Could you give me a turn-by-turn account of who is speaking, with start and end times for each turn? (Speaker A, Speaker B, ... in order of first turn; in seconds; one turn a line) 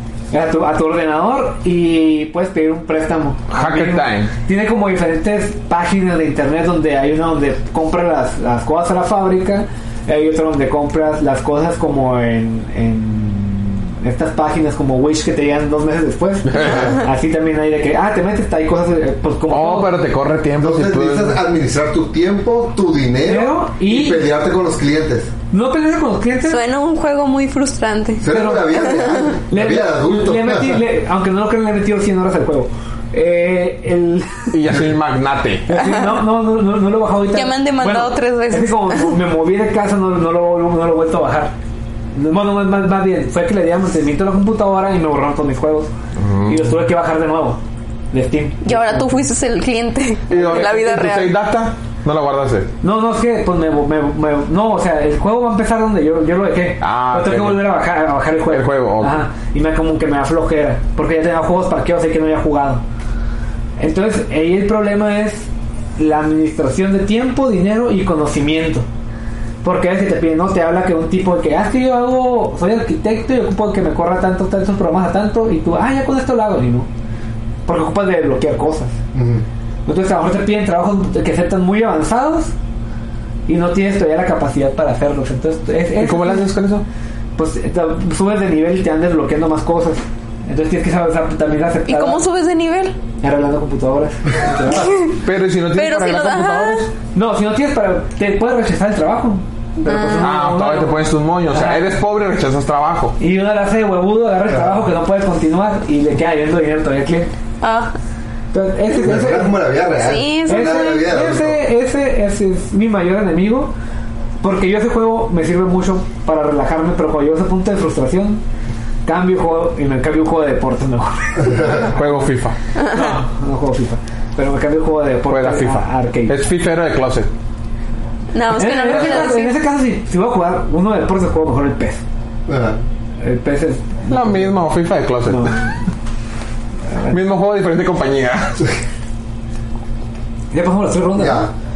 Speaker A: 0.3-20.0
Speaker B: 3.5-4.3
Speaker B: 16.4-17.0
Speaker B: 19.5-21.4
Speaker C: 20.6-25.3
Speaker A: 23.2-24.3
Speaker A: 25.5-26.6
Speaker D: 26.5-29.1
Speaker C: 28.2-30.8
Speaker A: 28.3-34.6
Speaker B: 34.5-35.8
Speaker A: 35.6-41.5
Speaker D: 37.3-39.1
Speaker A: 42.1-45.9
Speaker B: 46.2-46.7
Speaker A: 46.4-47.6
Speaker A: 48.1-49.0
Speaker D: 48.6-51.3
Speaker B: 50.3-52.7
Speaker A: 50.3-51.0
Speaker A: 52.8-62.8
Speaker B: 56.8-57.7
Speaker B: 58.5-59.2
Speaker A: 63.8-68.8
Speaker A: 69.6-76.9
Speaker A: 77.7-79.0
Speaker C: 79.1-79.4
Speaker A: 79.8-82.5
Speaker A: 83.5-86.5
Speaker B: 86.0-86.8
Speaker A: 87.3-92.2
Speaker D: 91.9-93.0
Speaker A: 93.2-95.1
Speaker D: 94.8-95.2
Speaker B: 95.2-96.9
Speaker D: 95.7-96.8
Speaker A: 97.1-101.9
Speaker D: 99.8-100.3
Speaker B: 100.2-103.2
Speaker A: 103.2-107.3
Speaker D: 107.6-107.9
Speaker A: 108.5-109.5
Speaker C: 108.9-111.6
Speaker D: 110.0-110.9
Speaker A: 110.5-113.7
Speaker A: 114.4-118.4
Speaker A: 119.0-122.3
Speaker B: 121.7-122.5
Speaker A: 122.8-126.4
Speaker B: 125.3-127.3
Speaker D: 128.3-129.5
Speaker A: 128.5-132.0
Speaker C: 132.5-132.8
Speaker A: 133.2-134.5
Speaker B: 134.1-135.6
Speaker A: 135.2-135.7
Speaker B: 137.1-138.7
Speaker A: 140.5-141.5
Speaker C: 141.2-141.5